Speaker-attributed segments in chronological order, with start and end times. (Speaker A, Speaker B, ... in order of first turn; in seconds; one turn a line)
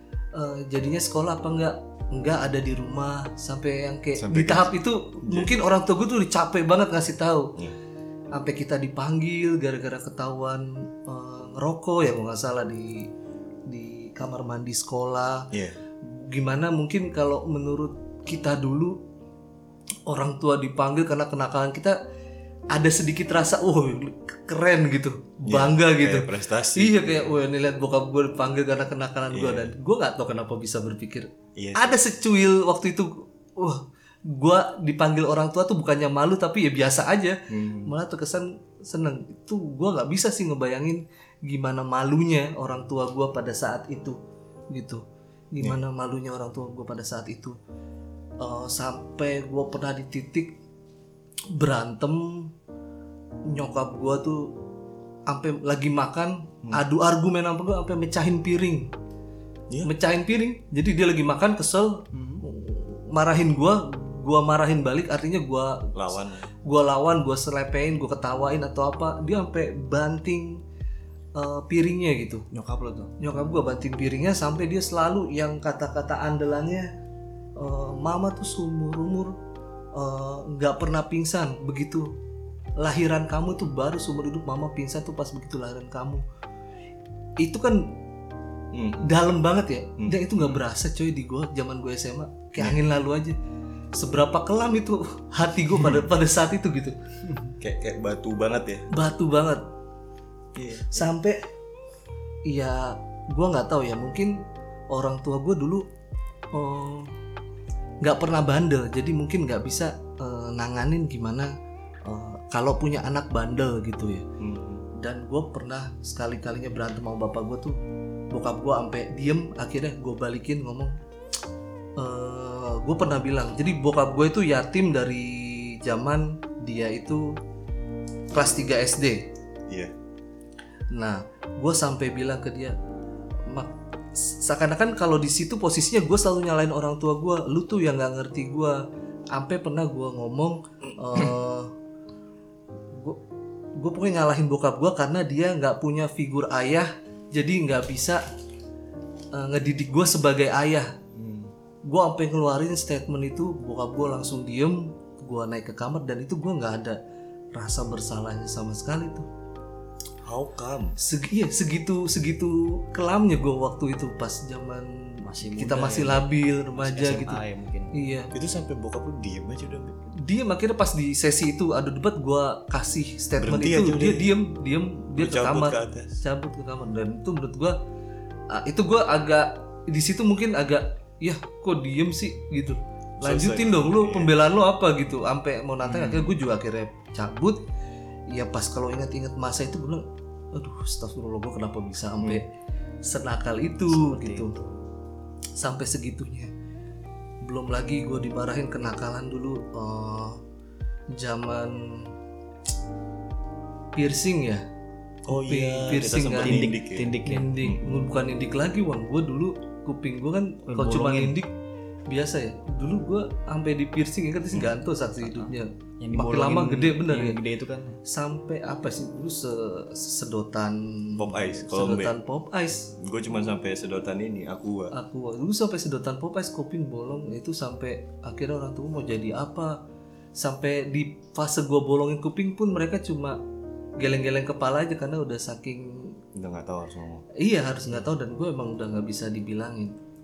Speaker A: 0.3-7.5
Speaker B: 4.2-4.7
Speaker B: 5.2-5.6
Speaker A: 8.3-13.1
Speaker A: 13.7-15.5
Speaker A: 16.0-19.0
Speaker A: 20.1-22.0
Speaker A: 22.7-44.2
Speaker B: 25.5-27.3
Speaker B: 29.3-29.7
Speaker B: 31.6-32.0
Speaker B: 37.5-37.9
Speaker A: 44.7-47.6
Speaker A: 48.4-50.5
Speaker A: 51.5-52.5
Speaker A: 53.5-54.5
Speaker A: 55.3-58.9
Speaker A: 59.8-70.6
Speaker C: 62.1-62.4
Speaker B: 65.9-66.5
Speaker A: 71.4-72.5
Speaker C: 72.5-73.1
Speaker A: 73.2-76.9
Speaker A: 77.5-79.3
Speaker A: 79.9-82.1
Speaker A: 82.8-86.2
Speaker A: 87.4-88.0
Speaker B: 88.7-89.1
Speaker A: 89.0-93.3
Speaker B: 90.0-90.5
Speaker A: 93.9-97.0
Speaker B: 97.6-98.9
Speaker A: 98.9-99.7
Speaker B: 100.5-101.1
Speaker A: 100.9-101.4
Speaker A: 102.5-104.4
Speaker A: 104.9-105.9
Speaker A: 106.5-107.1
Speaker A: 108.0-111.5
Speaker A: 112.0-114.3
Speaker B: 114.4-114.9
Speaker A: 115.0-117.8
Speaker A: 118.3-121.0
Speaker A: 122.0-127.4
Speaker A: 128.3-129.3
Speaker B: 129.7-129.9
Speaker A: 130.9-132.8
Speaker A: 133.5-141.7
Speaker A: 142.9-143.2
Speaker A: 143.8-148.2
Speaker A: 149.3-150.9
Speaker B: 151.1-151.5
Speaker A: 151.8-157.0
Speaker A: 157.5-159.2
Speaker B: 160.2-161.0
Speaker A: 161.0-167.4
Speaker C: 165.2-167.9
Speaker A: 167.9-168.3
Speaker B: 168.3-170.1
Speaker A: 170.2-177.8
Speaker B: 173.4-174.3
Speaker B: 175.2-176.2
Speaker A: 178.5-187.6
Speaker B: 183.2-184.3
Speaker B: 185.8-186.3
Speaker A: 188.3-192.5
Speaker A: 193.0-194.5
Speaker B: 193.9-194.7
Speaker A: 195.6-196.5
Speaker A: 197.4-200.4
Speaker A: 201.1-202.1
Speaker A: 203.9-204.6
Speaker B: 205.3-207.8
Speaker A: 205.3-211.5
Speaker C: 206.4-207.5
Speaker C: 210.7-211.4
Speaker A: 212.1-217.4
Speaker C: 215.2-218.0
Speaker A: 218.0-222.9
Speaker B: 221.2-222.1
Speaker B: 223.0-224.9
Speaker A: 224.9-229.8
Speaker A: 230.4-233.4
Speaker A: 234.0-236.2
Speaker B: 236.3-237.2
Speaker A: 237.4-240.0